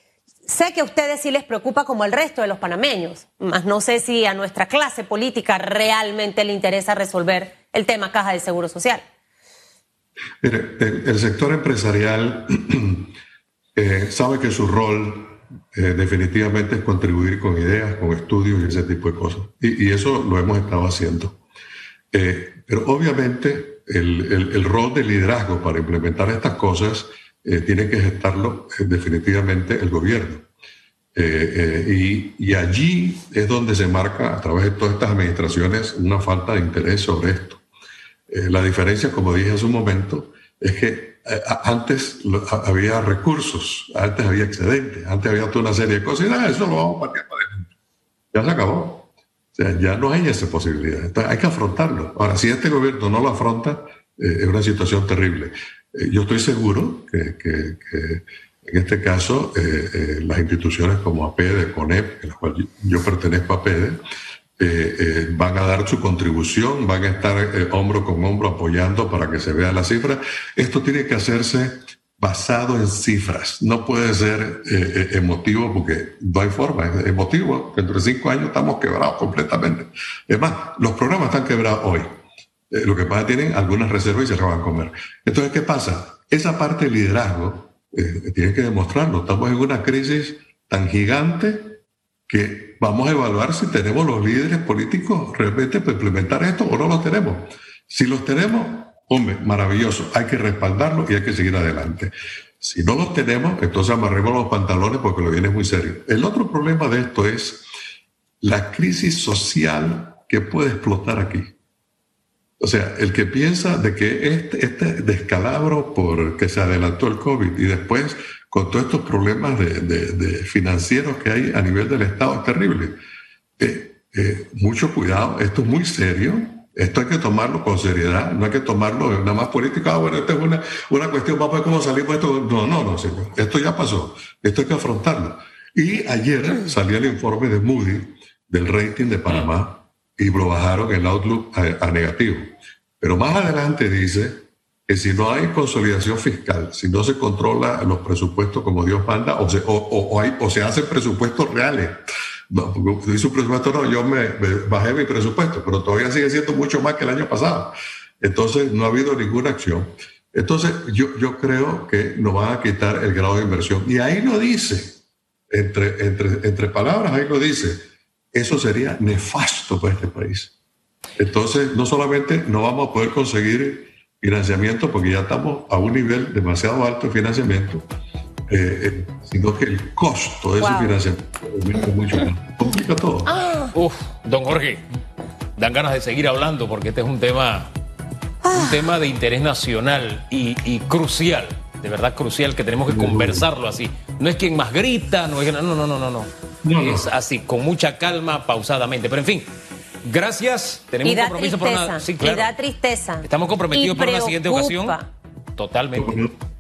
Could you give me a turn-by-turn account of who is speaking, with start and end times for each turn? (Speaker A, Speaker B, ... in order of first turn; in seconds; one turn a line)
Speaker A: 0.5-9.0
Speaker B: 10.4-13.1
Speaker B: 13.8-21.4
Speaker B: 22.1-30.5
Speaker B: 31.1-37.6
Speaker B: 38.3-47.7
Speaker B: 48.3-64.0
Speaker B: 64.6-82.2
Speaker B: 82.7-107.7
Speaker B: 108.4-111.5
Speaker B: 112.6-122.9
Speaker B: 123.6-142.5
Speaker B: 143.0-170.5
Speaker B: 171.2-177.8
Speaker B: 178.5-183.3
Speaker A: 180.6-180.9
Speaker C: 183.7-184.8
Speaker C: 185.6-187.7
Speaker A: 188.4-188.7
Speaker C: 188.5-199.5
Speaker B: 192.9-193.4
Speaker B: 196.6-197.1
Speaker C: 200.0-202.5
Speaker A: 201.0-205.1
Speaker C: 203.2-205.0
Speaker C: 205.6-206.2
Speaker B: 205.9-206.3